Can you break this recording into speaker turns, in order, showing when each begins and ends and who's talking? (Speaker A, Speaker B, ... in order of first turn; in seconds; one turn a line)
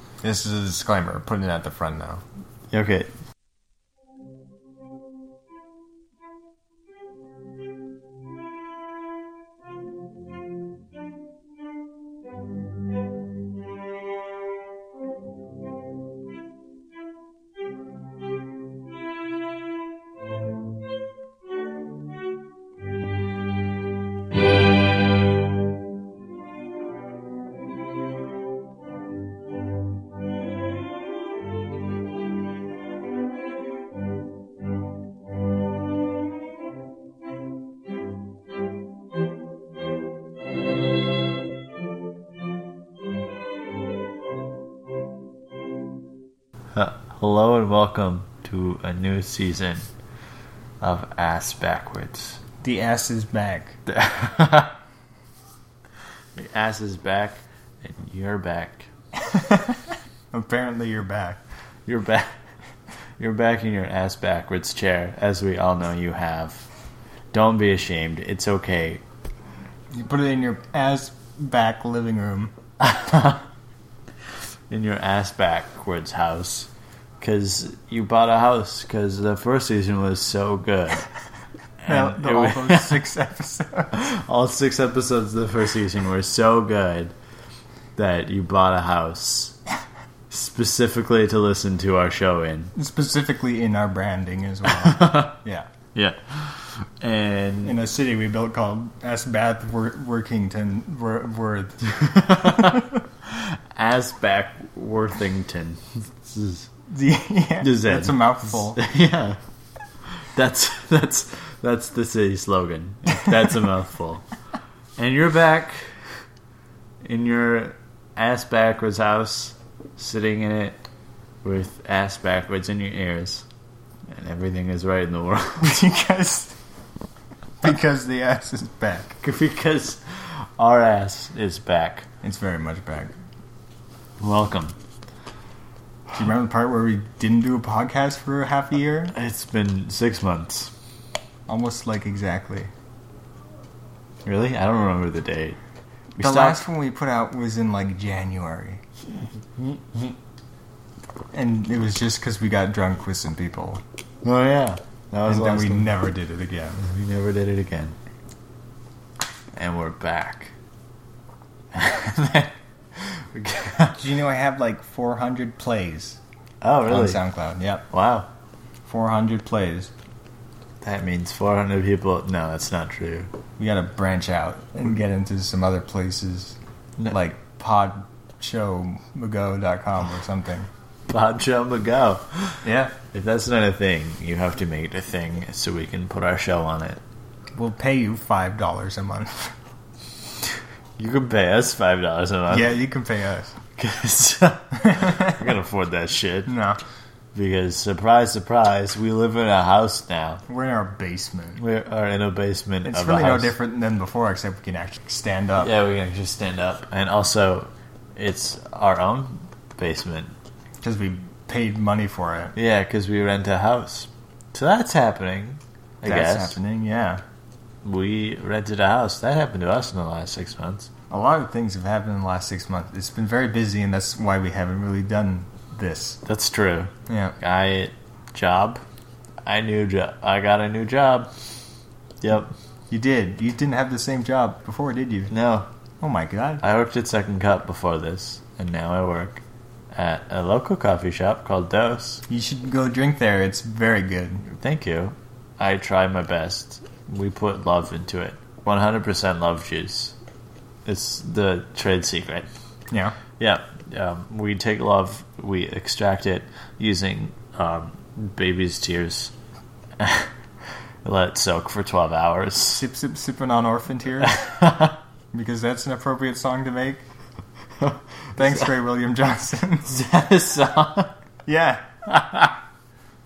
Speaker A: 0.2-2.2
Speaker B: 2.7-3.1
Speaker B: 46.7-49.9
Speaker B: 50.8-52.4
Speaker A: 52.6-53.8
Speaker B: 53.9-54.7
Speaker B: 56.4-58.9
Speaker A: 59.3-59.8
Speaker A: 60.3-61.4
Speaker B: 61.9-62.3
Speaker B: 63.2-66.7
Speaker B: 67.3-69.0
Speaker A: 69.9-72.5
Speaker B: 72.8-73.4
Speaker B: 74.7-76.7
Speaker B: 77.2-81.1
Speaker B: 81.8-83.0
Speaker A: 81.9-84.0
Speaker B: 83.9-87.1
Speaker B: 88.0-89.6
Speaker B: 90.3-92.7
Speaker A: 92.8-95.7
Speaker B: 94.7-95.4
Speaker B: 95.9-97.8
Speaker A: 97.6-101.8
Speaker B: 101.8-106.7
Speaker A: 102.4-102.9
Speaker A: 106.9-108.8
Speaker B: 107.6-109.4
Speaker B: 110.1-114.3
Speaker B: 115.0-115.9
Speaker B: 117.0-120.8
Speaker B: 121.4-123.5
Speaker B: 124.1-125.8
Speaker A: 125.6-126.6
Speaker A: 127.6-129.2
Speaker B: 129.2-132.1
Speaker A: 132.2-133.1
Speaker B: 134.2-134.8
Speaker A: 136.1-139.1
Speaker B: 139.1-140.7
Speaker A: 141.5-142.7
Speaker B: 144.3-145.6
Speaker B: 146.2-146.6
Speaker A: 146.2-148.8
Speaker A: 149.6-150.1
Speaker A: 151.3-153.8
Speaker B: 154.2-156.0
Speaker A: 155.3-156.8
Speaker B: 156.8-158.0
Speaker B: 159.6-160.5
Speaker B: 161.7-164.0
Speaker A: 163.9-166.2
Speaker B: 166.6-167.2
Speaker A: 166.9-167.9
Speaker B: 167.9-168.3
Speaker A: 168.8-169.9
Speaker B: 170.8-173.3
Speaker A: 173.6-176.6
Speaker A: 177.1-180.7
Speaker B: 181.1-187.0
Speaker A: 182.6-183.0
Speaker A: 187.6-189.5
Speaker B: 191.0-192.8
Speaker A: 192.5-193.5
Speaker B: 193.8-196.5
Speaker A: 194.8-195.4
Speaker A: 196.5-196.8
Speaker B: 197.3-200.4
Speaker A: 200.5-201.6
Speaker B: 201.6-203.5
Speaker A: 202.8-205.7
Speaker B: 205.6-210.3
Speaker A: 210.8-212.6
Speaker B: 212.6-216.6
Speaker A: 216.0-217.2
Speaker B: 217.8-220.9
Speaker A: 221.1-226.2
Speaker B: 226.2-228.8
Speaker A: 227.1-227.4
Speaker B: 229.5-231.3
Speaker B: 232.2-232.5
Speaker A: 232.9-235.3
Speaker B: 235.3-235.7
Speaker A: 236.0-236.6
Speaker B: 236.6-239.4
Speaker B: 239.9-242.2
Speaker A: 242.3-244.4
Speaker B: 244.5-250.2
Speaker B: 250.8-252.5
Speaker A: 252.9-253.2
Speaker B: 253.4-259.3
Speaker B: 260.0-260.3
Speaker B: 261.0-262.8
Speaker A: 262.8-264.4
Speaker B: 264.2-265.0
Speaker A: 265.3-267.1
Speaker B: 267.8-268.7
Speaker A: 268.4-269.9
Speaker B: 269.9-271.2
Speaker A: 271.5-271.8
Speaker B: 272.1-272.6